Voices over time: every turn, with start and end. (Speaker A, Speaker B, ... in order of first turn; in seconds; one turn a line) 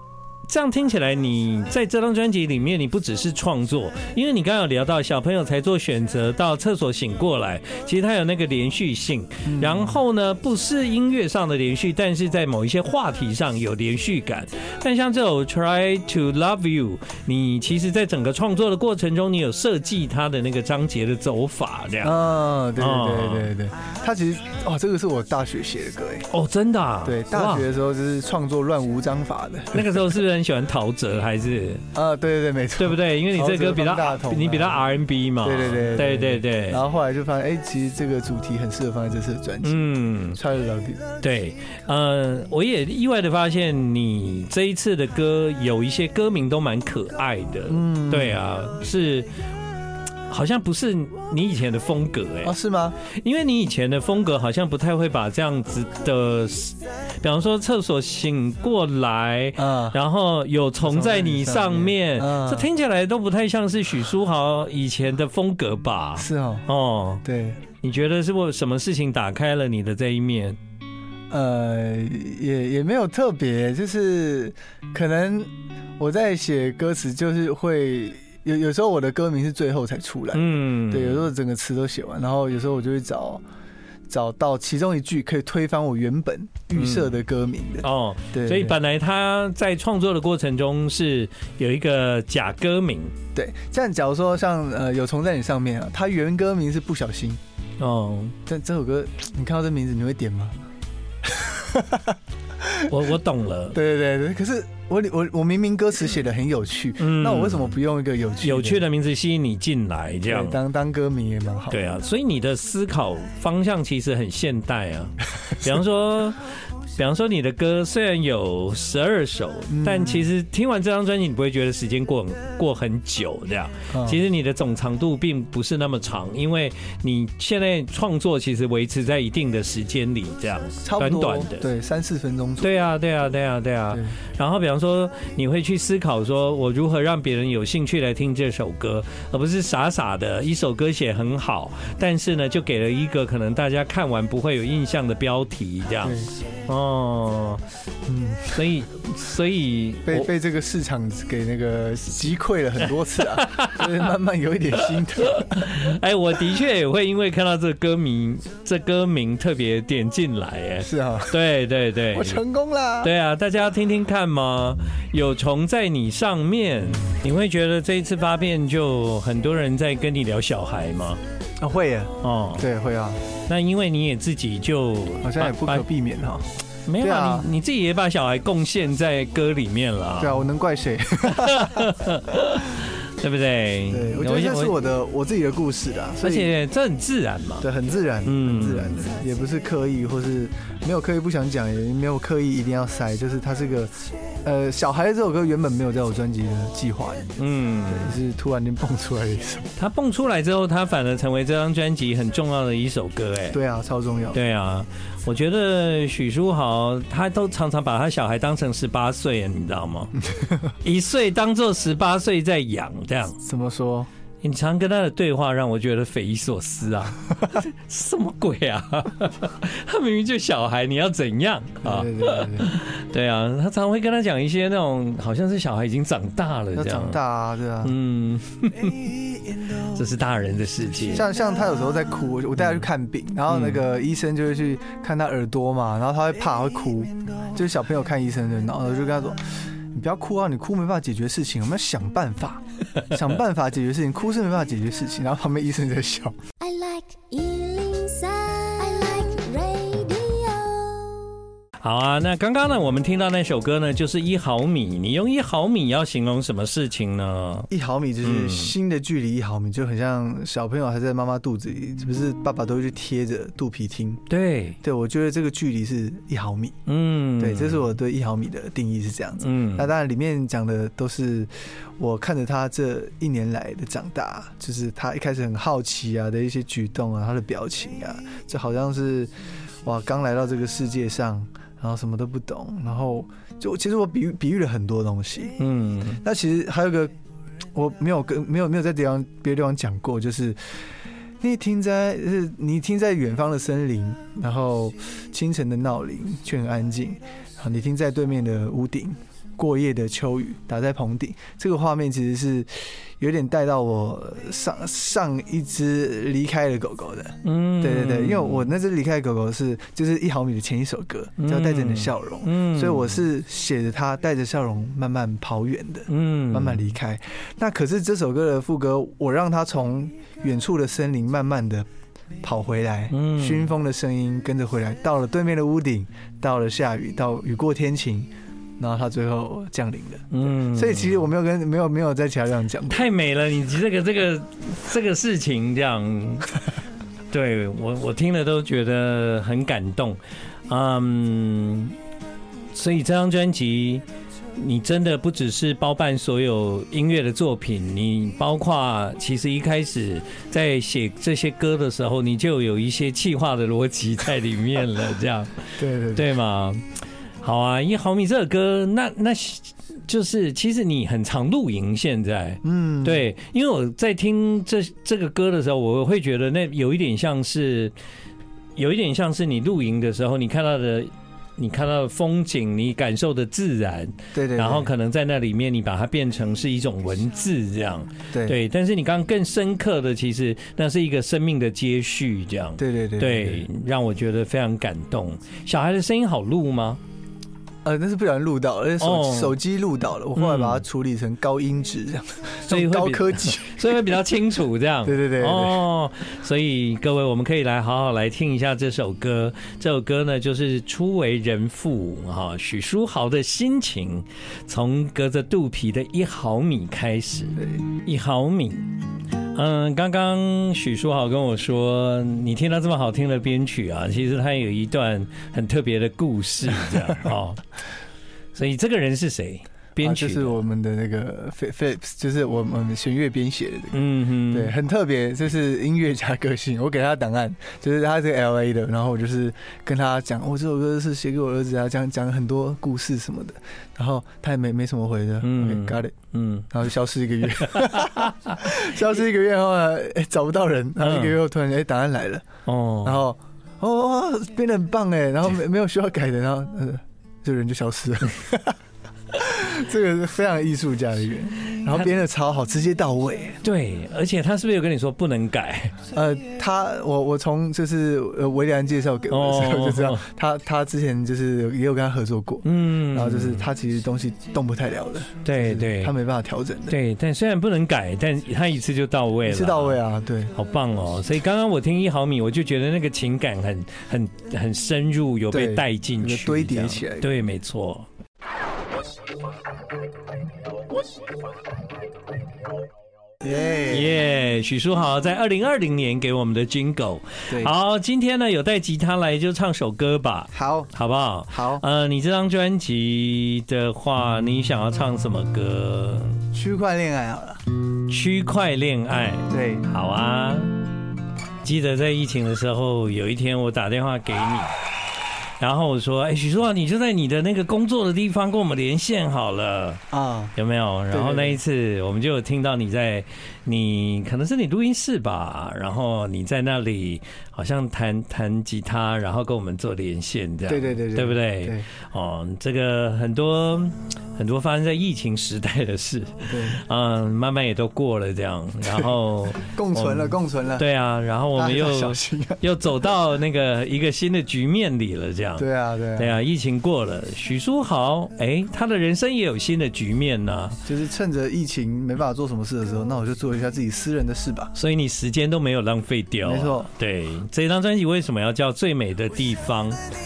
Speaker A: 0.5-22.2
Speaker B: 9.5-10.0
Speaker B: 22.0-26.3
Speaker A: 22.8-23.5
Speaker A: 26.3-27.7
Speaker B: 27.0-30.0
Speaker A: 29.7-31.8
Speaker B: 31.9-34.8
Speaker A: 32.8-36.8
Speaker B: 35.4-39.8
Speaker A: 39.6-40.4
Speaker B: 40.3-41.0
Speaker A: 41.2-49.3
Speaker B: 47.7-48.4
Speaker A: 50.3-52.5
Speaker B: 52.4-53.0
Speaker A: 53.1-67.2
Speaker B: 59.6-60.0
Speaker B: 60.8-62.7
Speaker B: 66.2-66.7
Speaker B: 67.2-67.6
Speaker A: 67.8-70.6
Speaker B: 71.3-83.4
Speaker A: 80.3-81.3
Speaker B: 84.1-88.8
Speaker A: 86.8-87.1
Speaker A: 87.8-93.1
Speaker B: 93.3-97.4
Speaker A: 97.8-98.3
Speaker B: 98.5-100.6
Speaker B: 101.2-102.9
Speaker A: 102.8-103.8
Speaker B: 103.7-108.9
Speaker A: 107.0-107.7
Speaker A: 108.4-110.6
Speaker B: 110.3-111.9
Speaker A: 111.7-116.4
Speaker A: 117.0-131.7
Speaker B: 119.7-120.3
Speaker B: 123.9-124.2
Speaker B: 130.8-132.7
Speaker A: 132.6-147.6
Speaker B: 146.0-146.3
Speaker B: 148.1-148.7
Speaker A: 148.5-150.3
Speaker B: 150.1-155.6
Speaker A: 153.5-153.8
Speaker A: 154.9-162.4
Speaker B: 160.8-161.4
Speaker B: 162.1-163.1
Speaker A: 163.0-171.2
Speaker B: 171.6-173.2
Speaker A: 172.2-172.7
Speaker A: 173.5-175.9
Speaker B: 175.2-176.5
Speaker A: 176.9-180.5
Speaker B: 177.0-177.5
Speaker B: 180.2-181.9
Speaker A: 181.3-184.8
Speaker B: 183.9-186.5
Speaker A: 186.2-187.7
Speaker B: 187.6-193.9
Speaker A: 188.2-189.1
Speaker B: 194.4-197.3
Speaker A: 197.4-198.2
Speaker B: 197.9-199.7
Speaker A: 199.8-203.6
Speaker B: 203.5-204.4
Speaker A: 204.3-210.2
Speaker A: 210.8-213.4
Speaker B: 213.4-214.1
Speaker A: 214.4-227.2
Speaker B: 221.8-222.7
Speaker B: 226.7-227.9
Speaker A: 227.8-229.2
Speaker A: 229.8-231.3
Speaker B: 231.1-246.4
Speaker A: 233.5-233.8
Speaker C: 246.6-251.4
Speaker A: 251.8-257.7
Speaker B: 257.7-264.2
Speaker A: 258.2-258.8
Speaker A: 264.3-264.8
Speaker B: 264.8-266.8
Speaker A: 266.9-267.8
Speaker B: 267.4-279.3
Speaker A: 269.4-269.9
Speaker B: 279.8-285.6
Speaker A: 285.6-286.2
Speaker B: 286.2-287.1
Speaker B: 287.7-290.8
Speaker B: 291.4-321.9
Speaker A: 307.4-308.7
Speaker A: 311.4-313.2
Speaker A: 316.1-316.9
Speaker B: 322.4-333.1
Speaker A: 323.1-323.7
Speaker A: 330.3-331.3
Speaker A: 332.9-336.5
Speaker A: 337.3-342.0
Speaker A: 342.7-356.8
Speaker B: 355.8-356.3
Speaker A: 357.4-367.9
Speaker B: 362.6-363.3
Speaker A: 368.8-387.0
Speaker B: 374.3-374.9
Speaker B: 378.3-378.6
Speaker B: 382.8-383.6
Speaker B: 387.9-394.2
Speaker A: 389.0-389.6
Speaker A: 390.4-390.8
Speaker A: 392.7-408.9
Speaker B: 395.1-395.9
Speaker A: 409.5-417.6
Speaker A: 418.5-420.6
Speaker B: 420.0-436.1
Speaker A: 423.9-424.7
Speaker A: 435.4-436.7
Speaker B: 436.7-442.4
Speaker A: 437.7-438.3
Speaker A: 441.0-441.4
Speaker A: 442.7-443.2
Speaker B: 443.0-448.8
Speaker B: 449.3-453.6
Speaker A: 453.6-456.0
Speaker B: 456.1-467.0
Speaker A: 459.3-460.2
Speaker A: 462.6-463.6
Speaker A: 465.4-466.1
Speaker A: 466.9-470.0
Speaker B: 469.5-470.5
Speaker A: 470.6-478.1
Speaker B: 475.5-477.3
Speaker B: 483.4-484.2
Speaker A: 483.9-496.4
Speaker B: 490.5-490.9
Speaker B: 491.5-491.9
Speaker B: 496.5-497.6
Speaker A: 498.1-500.8
Speaker B: 499.5-499.9
Speaker A: 501.6-504.7
Speaker A: 505.6-510.0
Speaker B: 510.1-510.5
Speaker A: 510.6-540.8
Speaker B: 511.1-511.6
Speaker B: 520.7-521.9
Speaker B: 526.4-526.8
Speaker B: 528.9-529.1
Speaker B: 529.6-530.9
Speaker B: 531.6-532.6
Speaker B: 535.6-536.4
Speaker B: 540.9-544.7
Speaker A: 544.7-550.0
Speaker B: 546.4-546.9